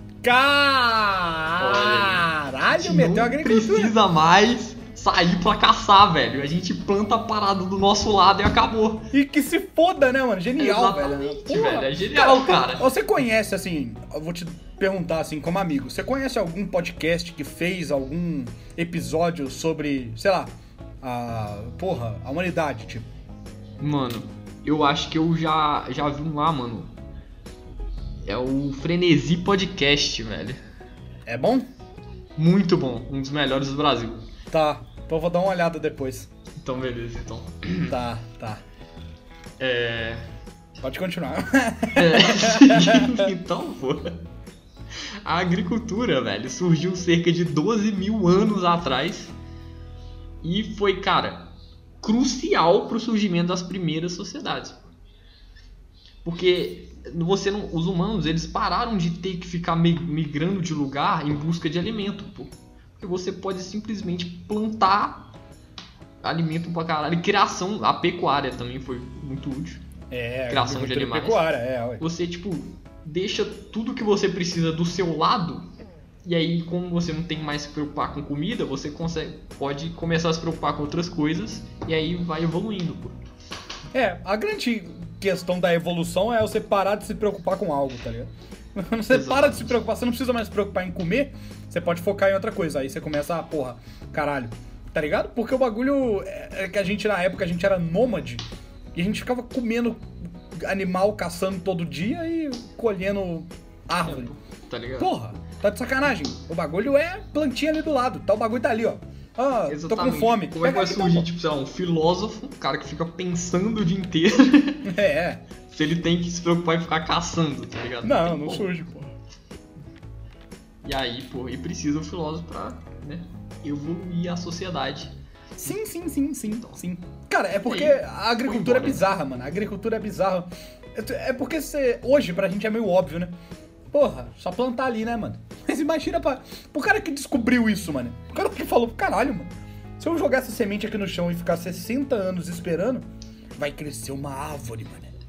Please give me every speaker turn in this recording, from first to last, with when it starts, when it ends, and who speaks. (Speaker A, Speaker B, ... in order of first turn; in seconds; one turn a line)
Speaker A: 0.2-3.9
Speaker B: 1.6-9.1
Speaker A: 9.1-23.1
Speaker B: 10.6-12.9
Speaker B: 23.8-26.9
Speaker B: 28.2-30.6
Speaker A: 31.2-31.7
Speaker B: 32.4-34.2
Speaker A: 34.5-36.3
Speaker B: 36.6-37.9
Speaker A: 37.9-38.6
Speaker B: 39.6-40.2
Speaker A: 40.8-43.3
Speaker B: 41.9-44.2
Speaker B: 45.0-49.3
Speaker B: 50.4-51.5
Speaker B: 52.0-54.8
Speaker B: 56.2-65.3
Speaker B: 66.2-69.8
Speaker A: 70.1-72.1
Speaker B: 70.5-71.4
Speaker B: 72.0-75.7
Speaker B: 76.2-83.2
Speaker A: 83.9-104.3
Speaker B: 89.1-89.8
Speaker B: 104.0-105.1
Speaker A: 105.0-111.3
Speaker B: 109.7-114.9
Speaker A: 114.8-115.4
Speaker B: 115.7-118.7
Speaker A: 118.0-119.1
Speaker B: 120.8-125.1
Speaker A: 125.6-133.3
Speaker B: 126.5-126.8
Speaker B: 127.6-129.1
Speaker A: 133.9-145.1